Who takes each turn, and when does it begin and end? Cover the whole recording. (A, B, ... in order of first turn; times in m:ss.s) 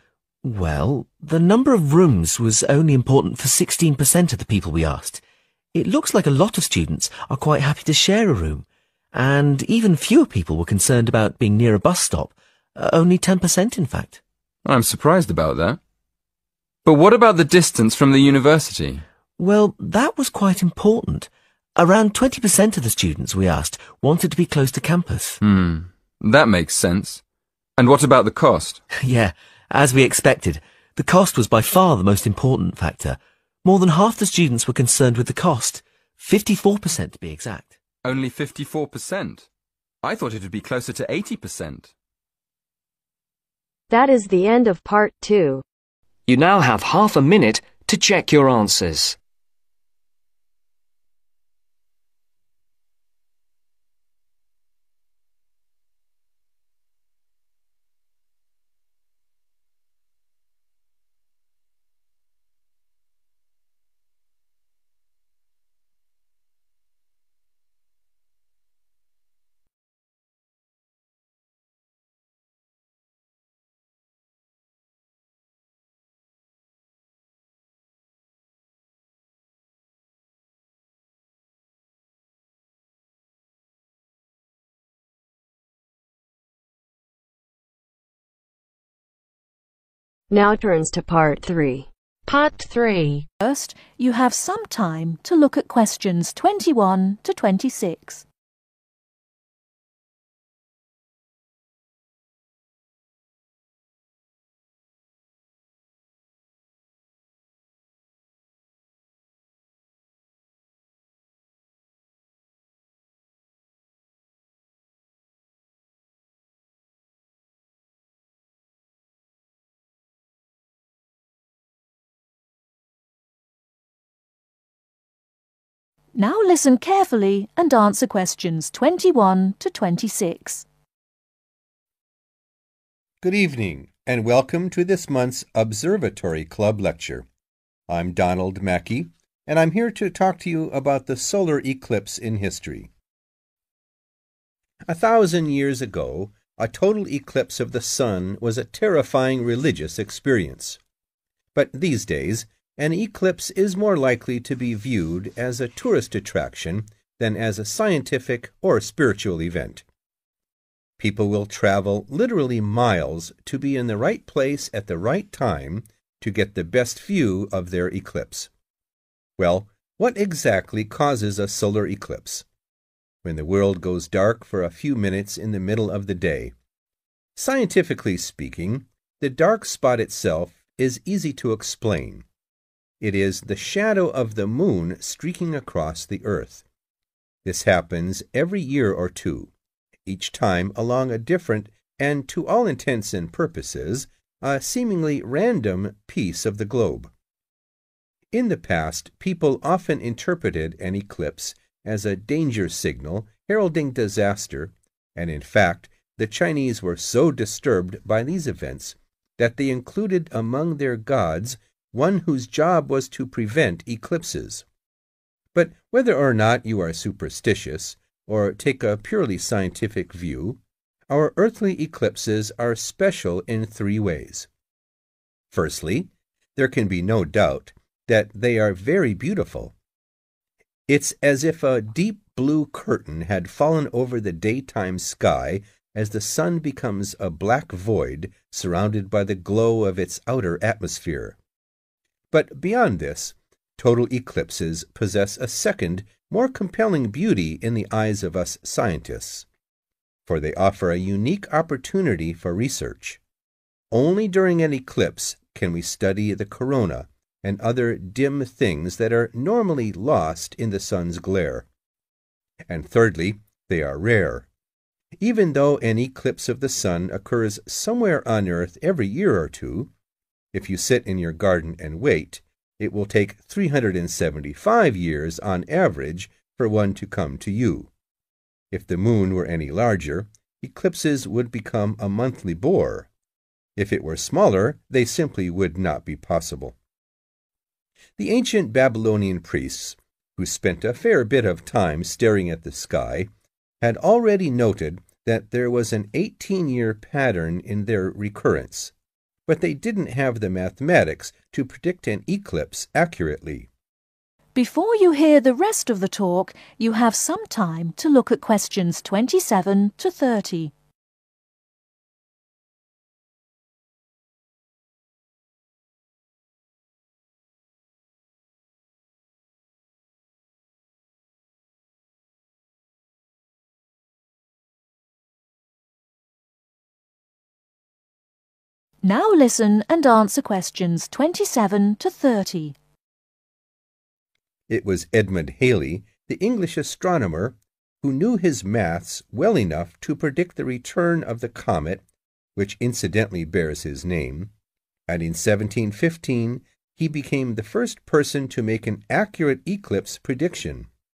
0:00.4-0:05.2 A
0:05.7-0:14.2 A
0:14.6-0:15.8 B
0:16.8-0:19.0 B
0:19.4-0:25.4 A
0:25.4-0:27.2 B
0:27.8-0:28.8 B
0:29.0-0:37.8 A
0:38.0-0:39.5 B
0:40.0-0:41.9 B
0:43.9-0:45.6 C
0:46.3-0:49.2 D
1:30.3-1:33.3 C
1:33.4-1:38.2 E
2:06.2-2:10.7 E
2:13.2-2:17.3 F
2:17.9-2:22.9 F
2:24.9-2:30.8 F
2:31.5-2:39.8 F
2:41.0-2:48.5 F
2:49.4-2:52.5 F
2:53.2-2:56.5 F
2:57.4-3:02.2 F
3:03.0-3:06.6 F
3:07.4-3:09.5 F
3:10.1-3:17.1 F
3:18.3-3:34.6 F
3:35.5-3:44.5 F
3:45.5-3:49.7 F
3:50.9-4:01.4 F
4:02.3-4:09.5 F
4:10.3-4:13.2 F
4:13.9-4:21.7 F
4:22.7-4:24.5 F
4:25.2-4:29.9 F
4:30.5-4:37.9 F
4:38.7-4:43.1 F
4:43.8-4:46.8 F
4:48.2-4:58.9 F
4:59.5-5:03.7 F
5:04.5-5:10.7 E
5:29.0-5:32.8 E
5:34.7-5:42.0 F
5:42.6-5:44.5 F
5:45.1-5:50.9 F